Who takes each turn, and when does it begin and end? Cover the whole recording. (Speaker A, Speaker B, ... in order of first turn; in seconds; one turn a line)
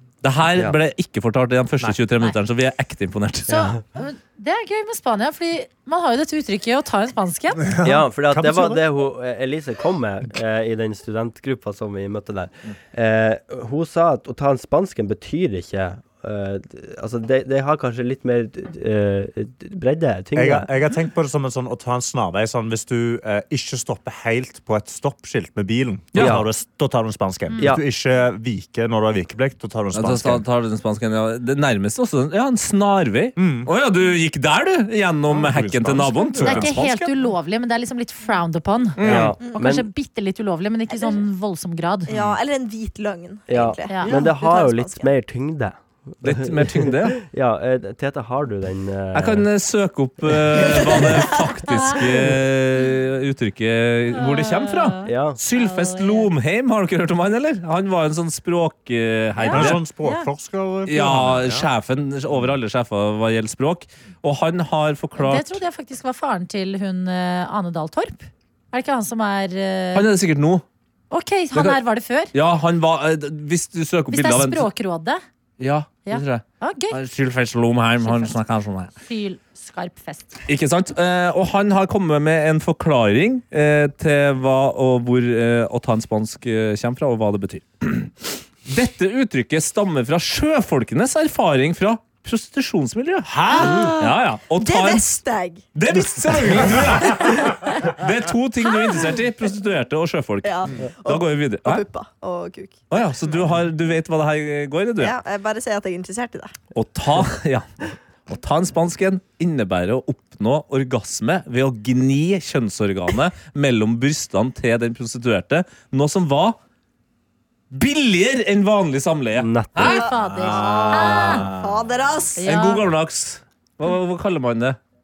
Speaker A: 0.2-3.7
Speaker B: 3.5-3.8
Speaker C: 3.5-7.7
Speaker D: 7.7-8.8
Speaker B: 7.8-20.7
Speaker D: 20.4-30.4
Speaker A: 26.1-26.4
Speaker B: 26.1-26.5
Speaker C: 27.5-27.8
Speaker B: 27.6-27.8
Speaker A: 29.9-37.1
Speaker D: 33.4-33.7
Speaker D: 35.3-36.7
Speaker C: 36.4-42.1
Speaker A: 39.0-39.3
Speaker B: 39.0-39.9
Speaker E: 42.1-45.1
Speaker D: 42.1-42.4
Speaker B: 43.5-49.5
Speaker C: 43.9-44.1
Speaker A: 46.2-47.2
Speaker A: 49.1-59.8
Speaker B: 50.5-51.2
Speaker C: 51.5-51.9
Speaker C: 54.1-56.3
Speaker B: 55.0-55.4
Speaker C: 59.4-60.3
Speaker D: 59.5-61.7
Speaker A: 60.9-65.6
Speaker C: 65.2-70.0
Speaker A: 69.9-70.6
Speaker C: 71.1-72.3
Speaker A: 71.5-71.8
Speaker A: 72.3-74.7
Speaker C: 74.1-75.2
Speaker A: 75.6-78.9
Speaker C: 76.0-77.0
Speaker C: 78.0-78.4
Speaker C: 79.0-80.4
Speaker A: 80.5-95.2
Speaker D: 93.3-93.9
Speaker E: 93.5-94.0
Speaker E: 94.5-95.7
Speaker A: 95.7-101.8
Speaker D: 96.4-97.3
Speaker E: 97.2-97.7
Speaker E: 100.4-103.4
Speaker A: 102.9-105.2
Speaker E: 105.0-106.5
Speaker A: 106.7-107.7
Speaker A: 108.3-116.6
Speaker A: 117.7-120.0
Speaker B: 119.4-120.0
Speaker C: 119.8-121.5
Speaker D: 120.0-121.9
Speaker E: 120.4-122.5
Speaker C: 122.4-122.8
Speaker A: 122.4-124.8